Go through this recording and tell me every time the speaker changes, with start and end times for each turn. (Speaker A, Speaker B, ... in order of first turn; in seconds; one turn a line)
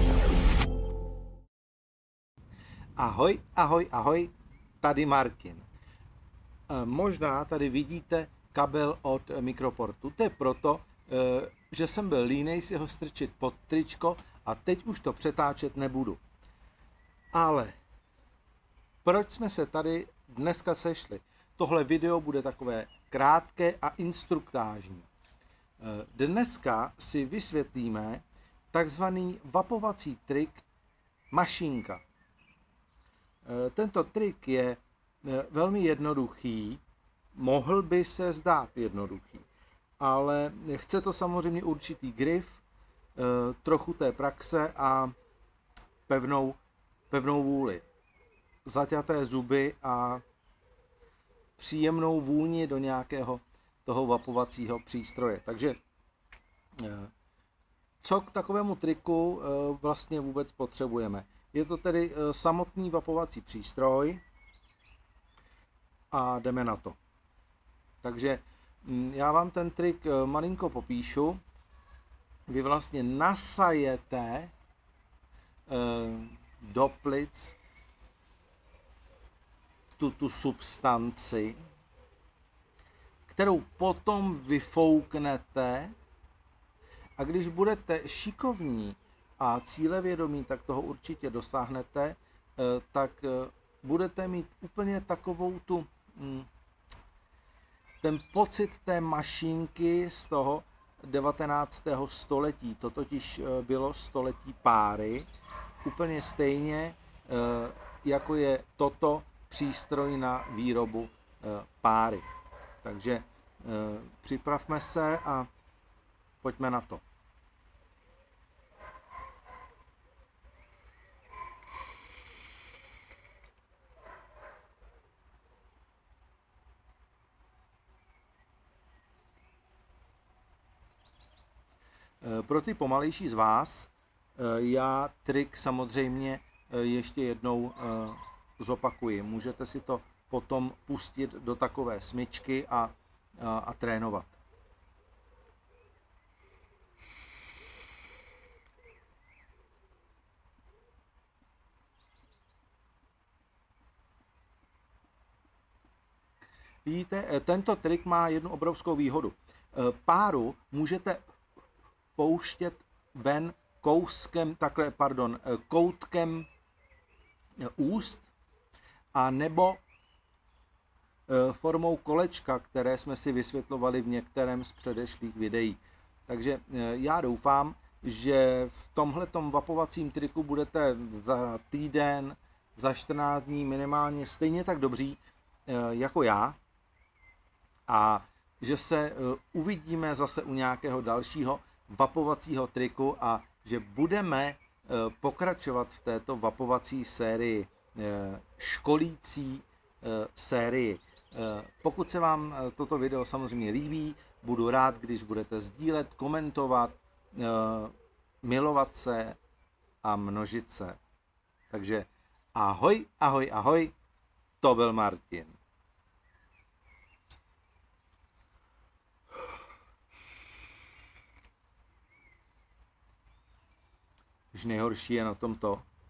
Speaker A: 3.0-5.7
Speaker A: 6.7-16.2
Speaker A: 17.3-17.8
Speaker A: 19.0-25.1
Speaker A: 25.8-30.6
Speaker A: 31.3-32.0
Speaker A: 33.4-36.8
Speaker A: 37.3-39.5
Speaker A: 40.0-42.6
Speaker A: 43.1-45.1
Speaker A: 46.1-46.6
Speaker A: 47.1-47.9
Speaker A: 48.6-50.2
Speaker A: 51.6-55.8
Speaker A: 56.8-57.1
Speaker A: 58.0-64.2
Speaker A: 66.1-67.0
Speaker A: 68.0-71.4
Speaker A: 72.5-74.5
Speaker A: 75.7-77.6
Speaker A: 80.0-81.6
Speaker A: 83.3-85.9
Speaker A: 87.2-96.5
Speaker A: 98.0-105.3
Speaker A: 105.8-112.3
Speaker A: 112.8-115.5
Speaker A: 116.4-117.0
Speaker A: 132.2-144.4
Speaker A: 156.8-161.2
Speaker A: 162.2-166.5
Speaker A: 167.6-168.3
Speaker A: 169.1-169.8
Speaker A: 171.3-186.6
Speaker A: 187.9-209.4
Speaker A: 210.0-211.0
Speaker A: 211.7-213.9
Speaker A: 214.6-215.6
Speaker A: 224.5-225.8